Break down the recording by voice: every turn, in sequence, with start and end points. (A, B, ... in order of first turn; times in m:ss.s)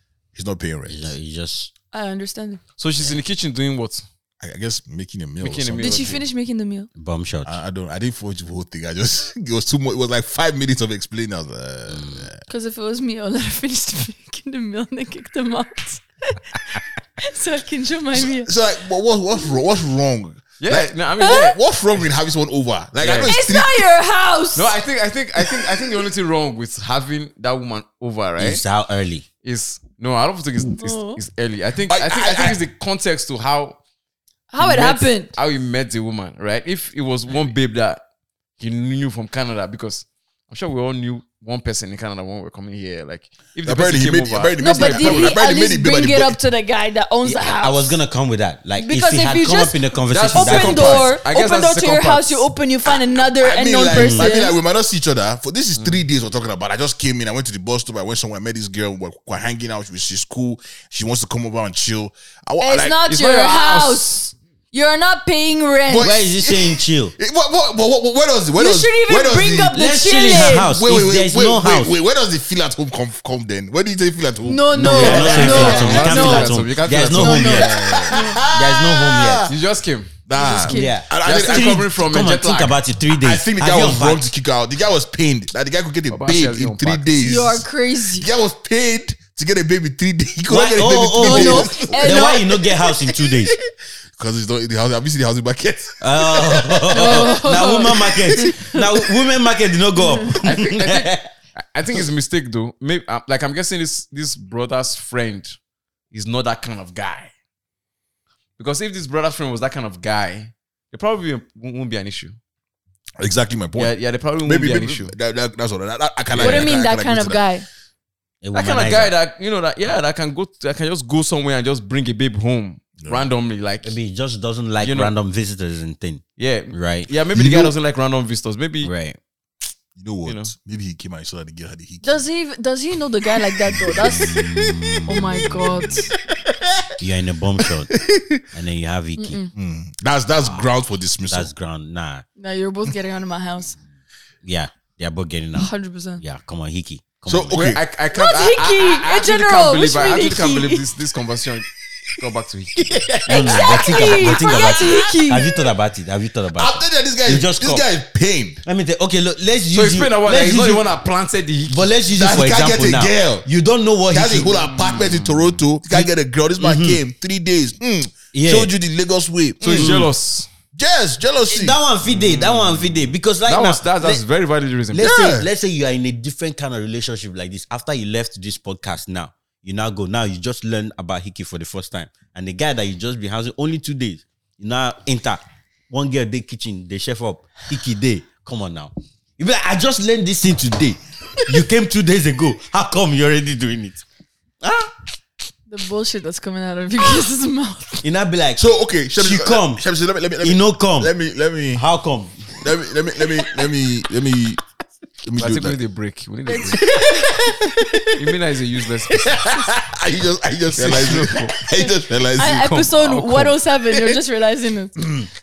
0:00.3-0:01.1 A
0:00.9-0:01.7 B
0:01.9-0:02.6 C
0:02.8-0:04.0 D
0:04.4-0:06.2 A
0:05.4-0:06.2 D
0:05.8-0:06.9 C
0:06.9-0:07.6 B
0:07.4-0:12.4 A
0:11.9-0:12.3 B
0:12.5-0:18.5 C
0:18.1-0:23.8 A
0:20.6-0:21.6 D
0:21.2-0:21.5 C
0:23.0-0:23.4 D
0:23.2-0:24.8 C
0:24.5-0:28.6 D
0:28.4-0:29.2 B
0:29.4-0:33.8 D
0:30.8-0:31.2 C
0:31.9-0:32.6 A
0:34.5-0:35.3 C
0:34.6-0:38.0 D
0:38.6-0:45.4 D
0:43.6-0:46.4 A
0:44.6-0:48.0 C
0:47.2-0:51.1 B
0:48.8-0:54.6 C
0:50.1-0:52.5 D
0:53.3-1:03.0 A
0:53.9-0:54.4 B
0:55.7-0:56.0 D
1:02.6-1:06.1 C
1:03.0-1:04.2 D
1:05.9-1:09.8 A
1:06.0-1:07.1 B
1:08.6-1:10.7 C
1:09.7-1:12.0 B
1:10.5-1:16.2 A
1:14.4-1:16.5 C
1:14.7-1:19.5 B
1:14.9-1:18.2 D
1:17.1-1:18.4 C
1:17.4-1:19.6 A
1:19.5-1:20.1 D
1:20.3-1:21.9 A
1:20.3-1:21.0 C
1:20.6-1:24.3 B
1:21.2-1:22.8 D
1:23.1-1:33.5 A
1:26.1-1:27.0 D
1:27.2-1:28.3 C
1:30.5-1:33.5 B
1:31.2-1:32.5 C
1:34.2-1:39.2 A
1:36.0-1:41.3 B
1:36.9-1:38.5 C
1:40.0-1:40.3 C
1:40.4-1:45.5 D
1:46.1-1:47.3 D
1:48.6-1:52.4 D
1:53.2-1:53.9 A
1:53.8-1:55.1 D
1:54.4-1:57.4 A
1:56.3-1:56.7 D
1:56.4-1:57.6 C
1:58.4-1:59.1 B
1:58.5-2:04.0 D
2:03.0-2:03.2 A
2:03.8-2:07.1 B
2:04.8-2:05.1 D
2:06.4-2:08.9 D
2:07.4-2:07.7 A
2:08.8-2:09.2 B
2:10.0-2:12.2 A
2:10.2-2:10.5 D
2:12.0-2:14.4 C
2:13.3-2:16.9 A
2:14.0-2:15.9 B
2:15.0-2:16.1 C
2:17.0-2:18.0 B
2:17.6-2:18.4 A
2:18.5-2:19.4 B
2:19.2-2:19.5 C
2:19.5-2:21.5 A
2:21.3-2:22.2 B
2:22.4-2:23.8 C
2:24.4-2:27.7 B
2:25.6-2:26.2 C
2:27.3-2:27.8 A
2:27.5-2:34.0 D
2:28.1-2:30.8 C
2:33.2-2:37.9 B
2:33.3-2:35.5 C
2:36.5-2:38.6 A
2:38.6-2:40.8 B
2:39.7-2:41.9 D
2:41.7-2:44.7 B
2:42.1-2:43.5 A
2:44.1-2:50.1 A
2:44.9-2:45.5 D
2:45.9-2:47.0 B
2:48.3-2:48.7 B
2:49.6-2:50.5 D
2:49.7-2:50.1 B
2:50.7-2:51.8 A
2:51.5-2:54.2 B
2:52.1-2:52.8 D
2:53.4-2:55.1 D
2:54.9-3:14.0 B
2:55.0-2:55.5 A
3:14.6-3:14.9 B
3:15.7-3:18.0 C
3:18.0-3:18.6 B
3:18.6-3:21.8 A
3:19.1-3:19.8 B
3:20.4-3:21.1 B
3:21.7-3:22.5 B
3:22.6-3:24.6 A
3:25.2-3:25.8 A
3:25.4-3:26.9 D
3:26.5-3:28.1 C
3:26.8-3:28.1 A
3:28.2-3:29.3 D
3:29.3-3:32.9 A
3:30.8-3:31.5 D
3:31.7-3:34.9 C
3:32.4-3:33.6 D
3:35.0-3:35.2 B